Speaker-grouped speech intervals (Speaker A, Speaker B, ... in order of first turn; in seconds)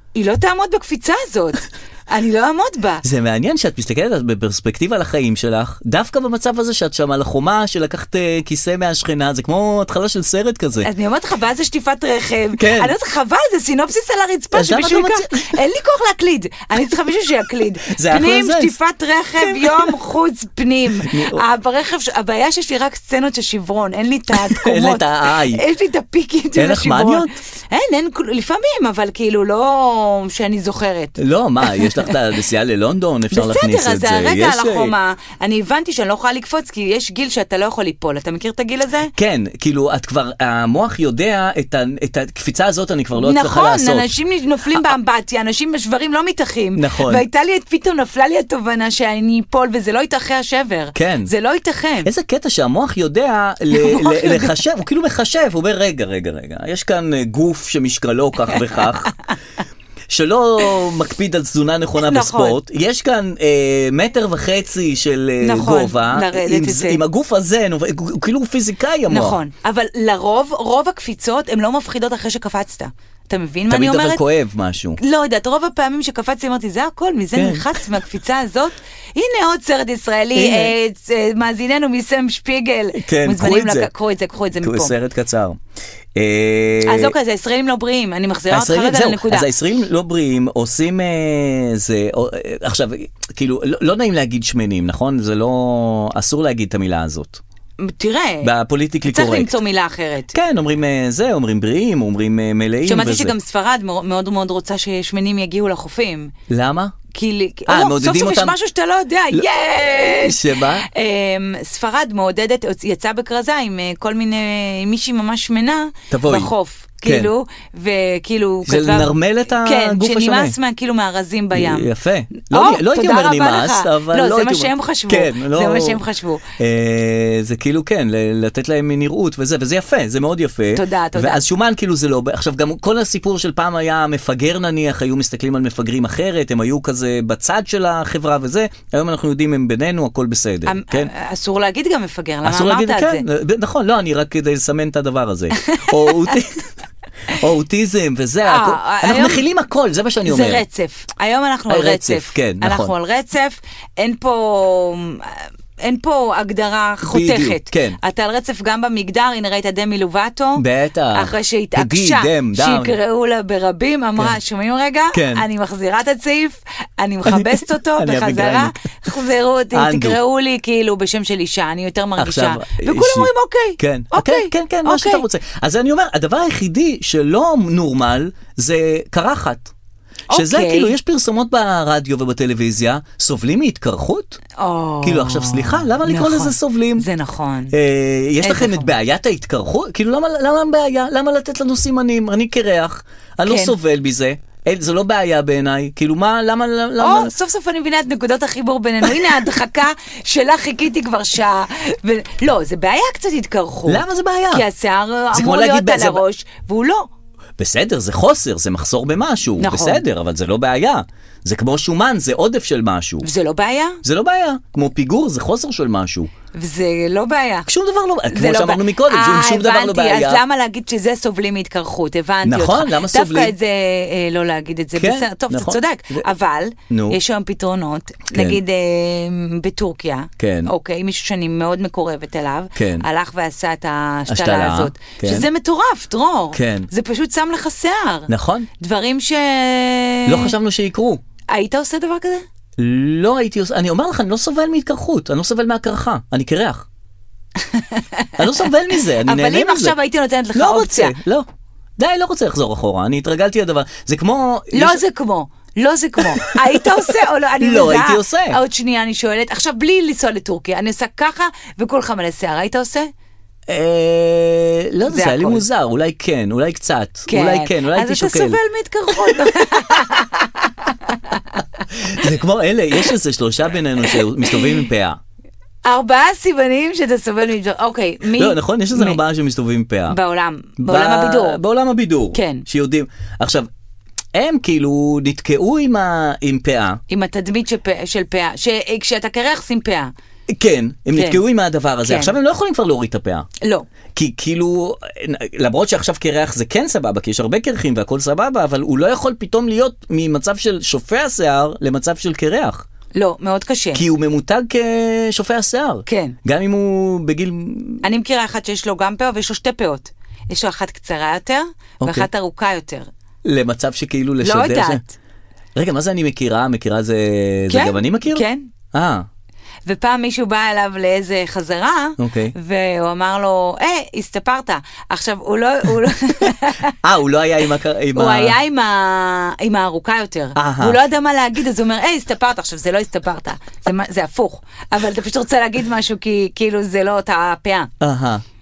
Speaker A: 0.1-3.0, 10.8-32.2, 33.3-39.1, 43.2-52.1, 53.7-54.6, 62.0-62.6, 65.4-67.0, 69.1-74.2, 75.0-84.9, 86.8-89.5, 97.8-98.5, 99.0-100.3, 102.8-106.3, 107.1-121.9, 122.4-126.4, 130.7-131.4, 140.7-143.2, 145.7-146.4, 148.4-149.5, 150.2-175.2, 180.3-180.9, 184.6-187.8, 188.4-188.9, 193.5-193.8, 197.0-207.1, 209.6-210.0, 213.2-214.0, 216.5-217.7, 218.3-240.6, 241.5-242.4, 247.6-248.4, 249.1-251.2, 254.7-263.1, 265.1-265.6, 267.3-271.4, 274.4-274.8, 275.9-279.2, 280.1-281.6, 282.3-282.7, 287.1-290.1, 291.1-291.4, 292.1-292.4, 293.6-293.9, 303.1-304.0, 306.1-306.4, 308.0-313.1, 314.4-315.1, 317.7-318.7, 319.9-326.9, 328.1-337.9
Speaker B: 3.0-10.9, 12.6-12.9, 14.5-15.5, 17.9-18.8, 19.4-19.9, 21.0-21.4, 24.4-25.6, 26.6-27.3, 31.2-34.9, 39.1-44.1, 46.8-47.2, 51.0-51.3, 52.0-59.1, 60.1-69.4, 73.7-75.0, 77.4-77.7, 80.3-80.7, 83.0-83.9, 84.6-85.6, 86.2-87.2, 88.5-97.4, 98.4-99.5, 100.3-103.3, 106.5-107.0, 107.7-108.5, 109.3-110.8, 116.1-116.5, 117.0-117.3, 118.7-120.5, 121.5-126.0, 126.6-141.1, 142.4-146.7, 147.3-150.6, 151.7-152.9, 157.1-158.0, 160.6-162.9, 165.1-165.4, 167.3-168.7, 169.7-170.2, 172.2-179.7, 180.3-184.4, 185.0-187.1, 187.7-197.3, 203.9-204.7, 205.3-206.2, 207.6-213.3, 214.0-216.3, 217.7-220.4, 222.4-223.5, 225.0-226.3, 226.9-227.2, 228.3-228.6, 230.4-230.7, 232.8-233.1, 234.3-235.5, 236.6-236.9, 238.3-238.7, 240.3-241.2, 242.8-246.9, 248.4-249.9, 250.6-251.5, 252.0-255.0, 256.2-258.6, 263.7-268.6, 271.9-275.2, 278.4-280.2, 280.8-283.7, 284.3-287.0, 290.5-293.5, 294.1-302.9, 303.9-308.0, 312.0-312.3, 313.4-315.0, 315.8-319.3, 322.2-322.5, 327.0-328.6, 330.6-331.0, 338.0-338.4